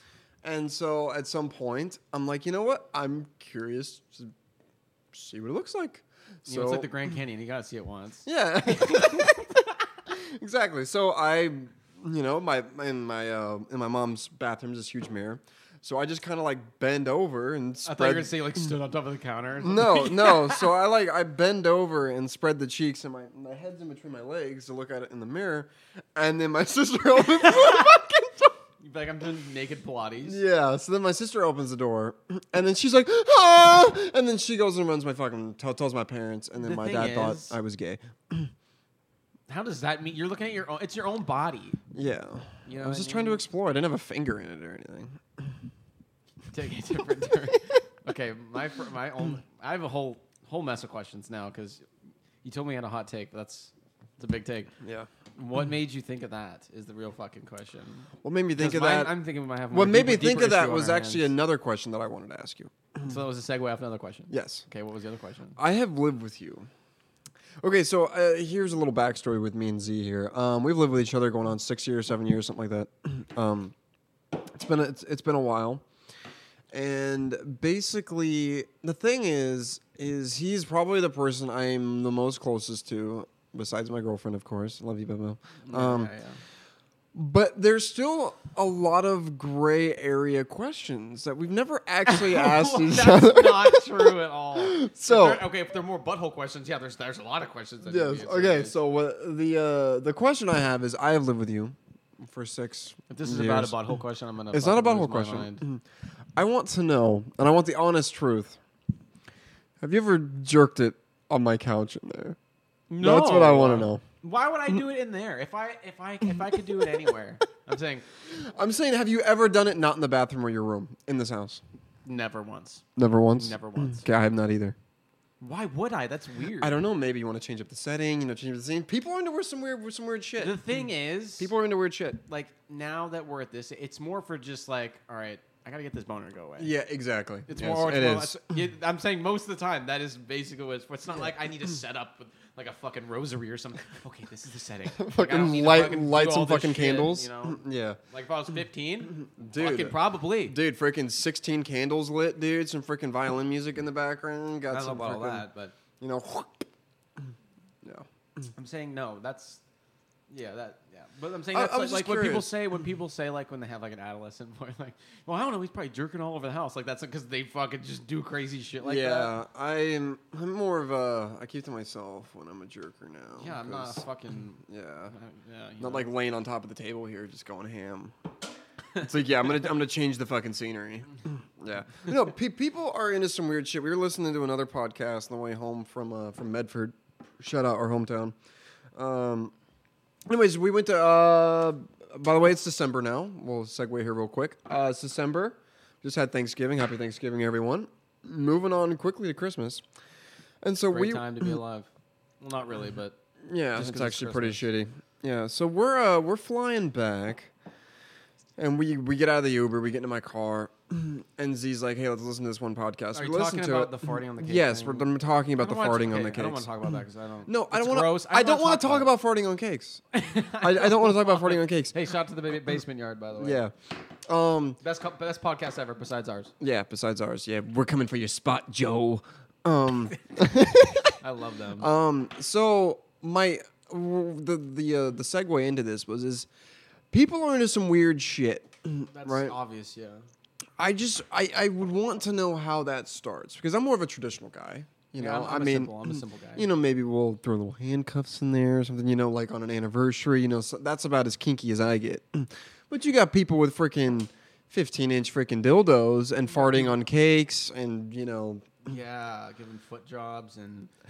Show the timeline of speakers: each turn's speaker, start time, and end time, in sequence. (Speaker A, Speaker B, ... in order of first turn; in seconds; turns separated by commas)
Speaker A: 0.4-4.3, Speaker A: 5.1-6.9, Speaker B: 6.5-9.4, Speaker A: 8.2-18.6, Speaker B: 17.8-20.7, Speaker A: 19.6-28.5, Speaker B: 27.4-27.9, Speaker B: 28.8-30.4, Speaker A: 30.2-38.5, Speaker B: 36.6-37.6, Speaker B: 39.5-41.8, Speaker A: 41.9-45.6, Speaker B: 42.6-43.4, Speaker B: 46.5-51.9, Speaker B: 52.4-54.7, Speaker A: 54.8-55.1, Speaker B: 55.4-61.3, Speaker A: 58.2-59.1, Speaker A: 59.7-62.8, Speaker B: 63.0-65.6, Speaker A: 64.3-64.6, Speaker A: 65.6-66.7, Speaker A: 67.6-73.7, Speaker A: 74.4-75.8, Speaker A: 76.7-86.1, Speaker B: 85.6-86.4, Speaker A: 87.1-95.4, Speaker B: 92.0-98.8, Speaker A: 97.8-104.0, Speaker B: 103.1-105.6, Speaker A: 104.5-105.8, Speaker A: 106.3-108.6, Speaker A: 109.8-112.4, Speaker B: 112.9-118.0, Speaker A: 113.0-114.0, Speaker A: 118.2-121.6, Speaker B: 122.0-124.0, Speaker A: 123.0-124.8, Speaker B: 125.4-126.8, Speaker A: 126.6-130.6, Speaker B: 130.4-131.5, Speaker A: 131.4-132.2, Speaker B: 132.3-136.7, Speaker A: 136.6-138.3, Speaker B: 137.5-150.6, Speaker A: 144.9-148.0, Speaker A: 149.1-155.4, Speaker B: 154.7-155.7, Speaker A: 156.0-157.3, Speaker A: 157.8-158.5, Speaker B: 158.6-159.6, Speaker B: 160.3-169.3, Speaker A: 161.5-162.5, Speaker A: 168.8-174.0, Speaker B: 173.4-176.1, Speaker A: 174.7-175.1, Speaker A: 175.8-178.1, Speaker A: 179.0-188.3, Speaker A: 188.9-189.5, Speaker A: 190.3-199.8, Speaker A: 200.6-201.6, Speaker B: 200.9-201.9, Speaker B: 202.4-203.2, Speaker A: 203.5-207.5, Speaker B: 203.7-204.6, Speaker A: 208.6-216.7, Speaker B: 213.1-219.1, Speaker A: 217.4-220.0, Speaker B: 220.1-223.6, Speaker A: 220.6-221.9, Speaker A: 223.4-223.7, Speaker A: 224.3-224.8, Speaker B: 224.8-226.5, Speaker A: 226.6-231.2, Speaker B: 231.2-231.9, Speaker A: 231.8-236.5, Speaker A: 237.1-239.5, Speaker B: 239.1-240.2, Speaker A: 240.8-258.8, Speaker B: 245.2-246.7, Speaker B: 256.5-256.9, Speaker B: 258.8-260.9